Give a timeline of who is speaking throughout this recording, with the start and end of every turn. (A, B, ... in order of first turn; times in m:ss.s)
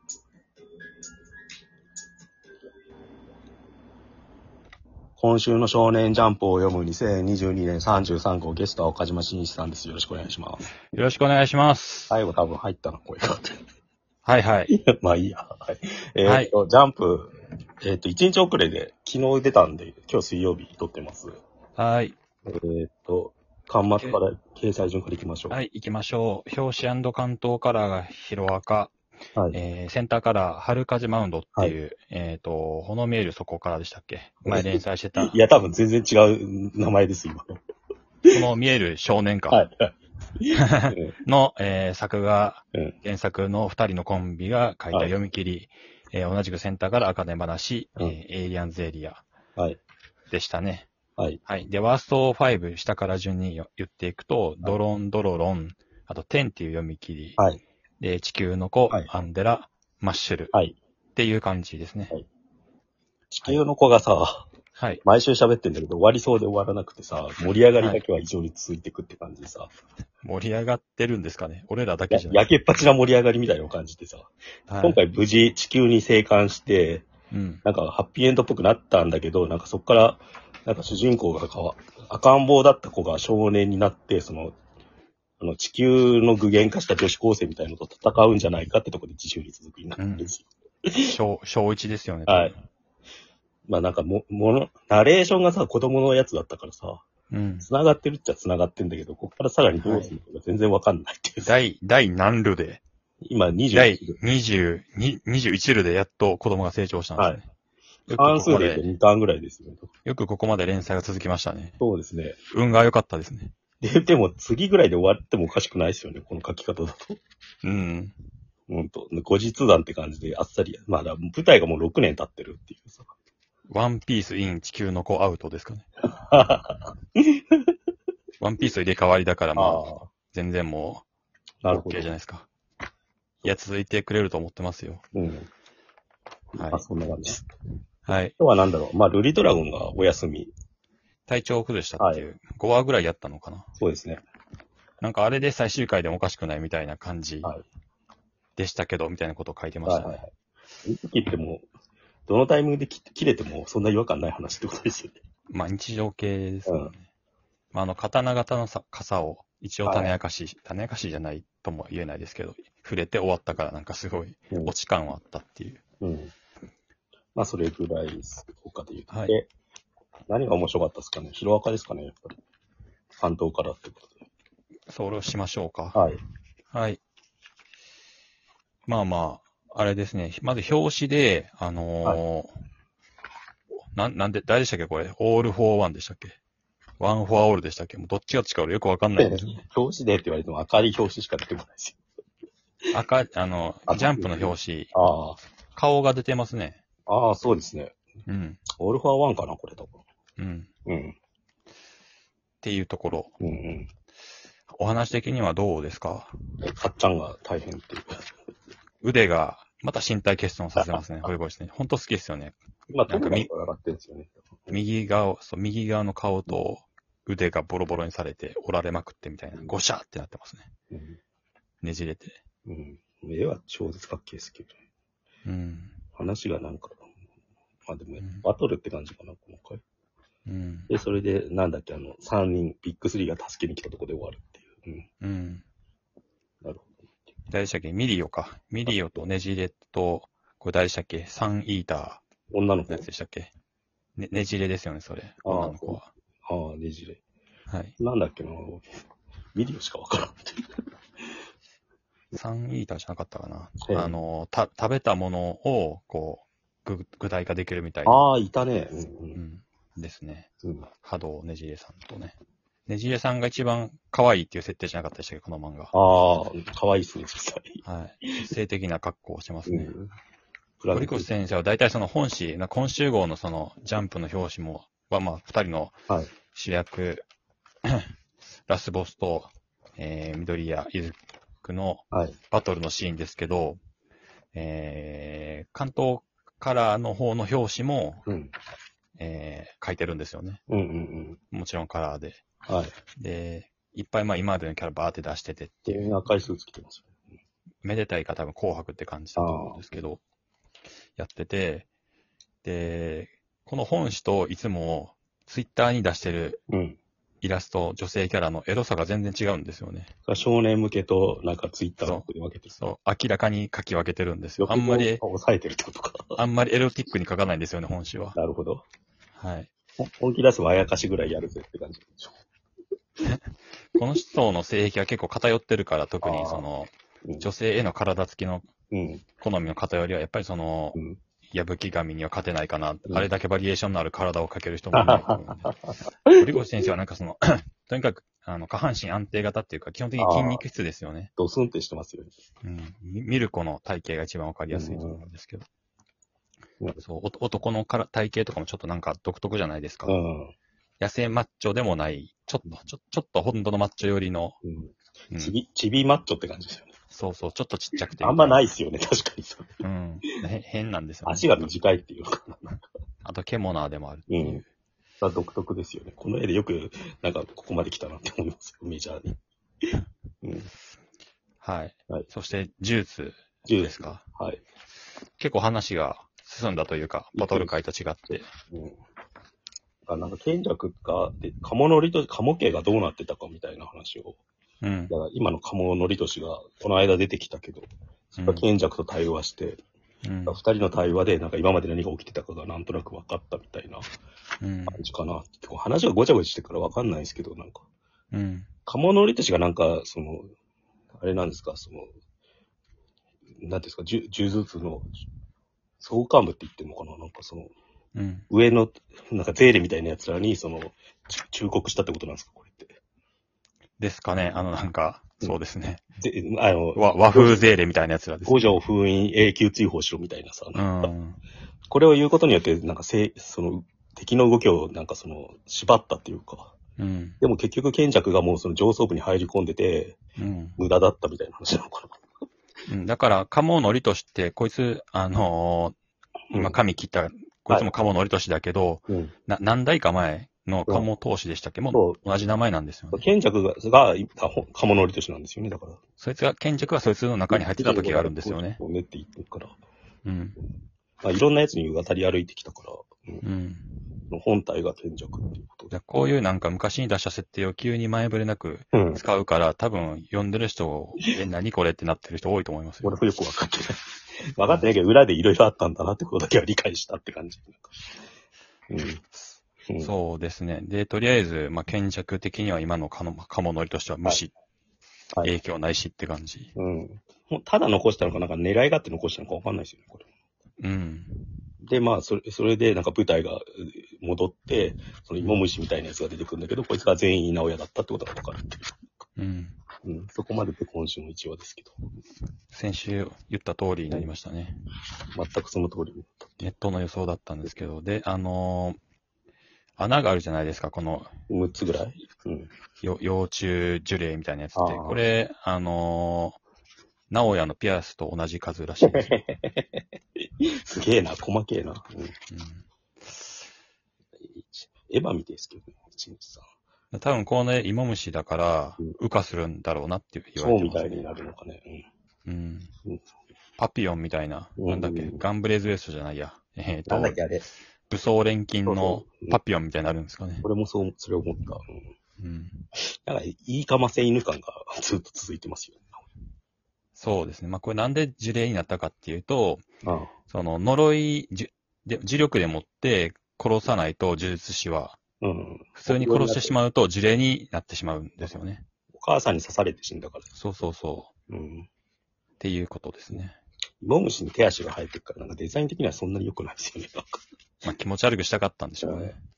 0:05.2-0:10.7 A
0:10.9-0:12.2 B
0:12.1-0:13.6 A
0:14.2-0:14.7 B
0:14.7-0:21.3 A
0:16.2-0:16.5 B
0:21.8-0:22.2 B
0:22.5-0:25.6 A
0:25.5-0:28.9 B
0:29.5-0:35.4 B
0:34.4-0:37.6 A
0:38.3-0:39.6 B
0:39.5-0:41.2 A
0:40.5-0:49.2 B
0:50.3-0:50.9 B
0:51.4-0:57.4 B
0:58.0-1:00.5 B
1:01.2-1:02.1 B
1:03.3-1:04.5 A
1:04.8-1:05.0 B
1:05.0-1:09.7 A
1:07.8-1:08.0 B
1:10.2-1:12.4 B
1:12.1-1:17.0 A
1:14.7-1:15.0 B
1:17.3-1:17.6 B
1:17.6-1:24.6 A
1:25.4-1:31.2 A
1:30.0-1:30.3 B
1:31.1-1:32.6 B
1:32.3-1:32.5 A
1:33.7-1:37.0 A
1:37.3-1:37.7 B
1:37.6-1:41.5 A
1:39.8-1:40.2 B
1:41.4-1:42.8 B
1:43.2-1:44.2 A
1:43.7-1:47.5 B
1:47.2-1:47.4 A
1:48.1-1:48.8 B
1:48.1-1:49.9 A
1:50.0-1:51.8 B
1:51.8-1:52.4 A
1:52.5-1:53.5 B
1:53.8-1:57.2 A
1:57.6-1:58.1 B
1:58.7-2:03.1 A
2:03.7-2:05.8 B
2:06.1-2:07.6 A
2:08.4-2:11.0 B
2:09.6-2:10.1 A
2:11.6-2:12.1 A
2:11.7-2:12.5 B
2:13.4-2:15.0 B
2:15.1-2:15.5 A
2:16.5-2:17.4 A
2:16.5-2:16.8 B
2:18.0-2:18.3 B
2:18.4-2:20.5 A
2:21.3-2:23.7 B
2:22.0-2:22.2 A
2:23.8-2:24.2 A
2:25.0-2:27.5 B
2:28.6-2:30.2 B
2:29.8-2:30.3 A
2:30.8-2:31.6 A
2:32.3-2:35.2 A
2:35.5-2:37.1 B
2:36.7-2:36.9 A
2:37.7-2:45.8 B
2:39.8-2:40.1 A
2:46.0-2:46.3 A
2:47.3-2:49.5 A
2:50.3-2:52.4 A
2:53.2-2:54.2 A
2:54.9-2:56.0 B
2:55.9-2:56.2 A
2:56.7-2:57.0 B
2:58.9-3:02.5 B
3:03.9-3:06.4 B
3:07.0-3:09.6 B
3:09.2-3:12.0 A
3:12.9-3:14.9 B
3:13.9-3:15.4 A
3:15.7-3:16.8 B
3:17.1-3:18.0 A
3:18.3-3:18.6 B
3:18.8-3:20.0 A
3:20.4-3:20.7 B
3:20.8-3:21.2 A
3:22.6-3:23.3 B
3:23.4-3:23.9 A
3:24.7-3:26.3 B
3:26.6-3:28.3 A
3:29.0-3:32.6 B
3:32.9-3:34.8 A
3:33.1-3:33.5 B
3:34.7-3:40.7 B
3:40.9-3:41.2 A
3:41.8-3:42.4 B
3:42.6-3:44.8 A
3:45.4-3:46.0 B
3:46.2-3:47.1 A
3:47.9-3:49.8 A
3:48.2-3:48.4 B
3:50.4-3:50.9 B
3:50.9-3:55.0 A
3:55.2-3:55.6 B
3:56.6-3:57.0 A
3:57.5-4:02.2 B
4:02.5-4:03.0 A
4:02.9-4:03.5 B
4:04.2-4:06.1 B
4:05.4-4:07.2 A
4:07.7-4:07.9 B
4:08.0-4:08.9 A
4:09.5-4:10.7 A
4:12.3-4:18.2 B
4:13.8-4:14.2 A
4:18.0-4:19.4 A
4:19.3-4:20.5 B
4:21.0-4:22.4 B
4:22.9-4:25.9 B
4:25.9-4:28.5 A
4:27.8-4:29.9 B
4:29.7-4:30.1 A
4:30.8-4:31.3 A
4:30.9-4:36.0 B
4:36.5-4:37.2 B
4:38.7-4:43.8 B
4:42.1-4:42.4 A
4:44.5-4:48.2 B
4:48.2-4:48.5 A
4:49.2-4:50.6 B
4:50.7-4:51.4 A
4:51.5-4:52.4 B
4:52.6-4:52.9 A
4:53.2-4:56.2 B
4:55.9-4:57.1 A
4:57.8-5:00.2 B
4:59.4-4:59.8 A
5:01.2-5:01.9 B
5:02.6-5:06.6 B
5:06.7-5:07.0 A
5:07.4-5:10.1 B
5:10.3-5:12.8 A
5:12.0-5:15.2 B
5:14.6-5:16.4 A
5:16.4-5:18.4 B
5:18.4-5:18.8 A
5:19.4-5:19.7 B
5:20.0-5:22.4 A
5:23.9-5:28.6 B
5:26.2-5:26.6 A
5:28.9-5:29.2 A
5:29.4-5:31.0 B
5:31.5-5:35.7 B
5:34.9-5:36.4 A
5:36.3-5:41.3 B
5:40.2-5:40.6 A
5:41.4-5:42.3 A
5:42.6-5:45.6 B
5:44.7-5:45.2 A
5:47.0-5:50.2 B
5:50.1-5:50.5 A
5:51.0-5:54.6 B
5:54.6-5:57.0 A
5:55.3-5:55.6 B
5:57.1-5:58.6 B
5:58.2-5:59.8 A
5:59.8-6:01.7 B
6:01.2-6:02.8 A
6:03.2-6:04.6 B
6:04.3-6:04.6 A
6:05.2-6:09.4 A
6:10.4-6:10.7 A
6:11.6-6:14.2 B
6:13.6-6:14.6 A
6:15.4-6:18.5 B
6:17.3-6:17.7 A
6:18.7-6:19.0 A
6:20.0-6:24.4 A
6:24.8-6:25.1 B
6:25.1-6:27.9 A
6:28.4-6:28.6 B
6:28.4-6:29.8 A
6:30.2-6:30.6 B
6:30.5-6:34.1 A
6:34.6-6:35.0 B
6:34.9-6:37.8 A
6:38.3-6:38.7 B
6:38.9-6:40.5 A
6:41.1-6:42.1 A
6:43.6-6:45.1 A
6:46.0-6:47.7 A
6:48.1-6:48.4 B
6:48.5-6:53.0 A
6:54.0-6:56.0 B
6:56.2-6:57.7 A
6:56.9-6:58.8 B
6:58.4-7:01.1 A
7:00.7-7:01.4 B
7:01.9-7:06.7 A
7:07.0-7:07.4 B
7:07.4-7:10.2 A
7:10.4-7:10.8 B
7:10.8-7:12.2 A
7:12.9-7:15.9 B
7:16.5-7:16.8 A
7:16.5-7:23.2 B
7:19.1-7:19.3 A
7:21.9-7:22.2 A
7:23.1-7:26.0 A
7:26.2-7:28.8 B
7:27.5-7:29.8 A
7:30.2-7:30.6 B
7:31.2-7:33.4 A
7:33.4-7:34.1 B
7:34.3-7:35.9 A
7:35.9-7:43.1 B
7:38.9-7:39.2 A
7:43.0-7:48.0 A
7:48.9-7:49.2 A
7:50.0-7:54.5 B
7:55.4-7:56.7 B
7:56.8-8:00.3 A
8:00.8-8:01.7 B
8:01.8-8:09.1 A
8:09.4-8:09.8 B
8:10.0-8:11.9 A
8:12.7-8:14.8 B
8:15.3-8:16.7 A
8:16.6-8:19.0 B
8:20.0-8:21.3 B
8:21.5-8:22.7 A
8:23.0-8:26.6 B
8:24.7-8:25.2 A
8:27.3-8:29.4 B
8:29.1-8:32.3 A
8:32.5-8:33.6 B
8:34.4-8:36.6 A
8:37.1-8:41.3 B
8:40.6-8:42.0 A
8:42.4-8:42.9 B
8:43.8-8:47.4 B
8:44.8-8:45.4 A
8:47.1-8:47.7 A
8:48.1-8:50.6 B
8:48.8-8:49.6 A
8:50.6-8:52.0 A
8:52.4-8:52.8 B
8:53.0-8:56.2 A
8:57.2-8:59.8 B
9:00.0-9:00.3 A
9:00.5-9:05.2 B
9:05.4-9:06.8 A
9:06.0-9:08.8 B
9:09.1-9:10.5 A
9:10.5-9:11.3 B
9:11.5-9:11.9 A
9:12.6-9:13.6 B
9:14.0-9:17.4 A
9:17.8-9:19.4 B
9:19.0-9:19.3 A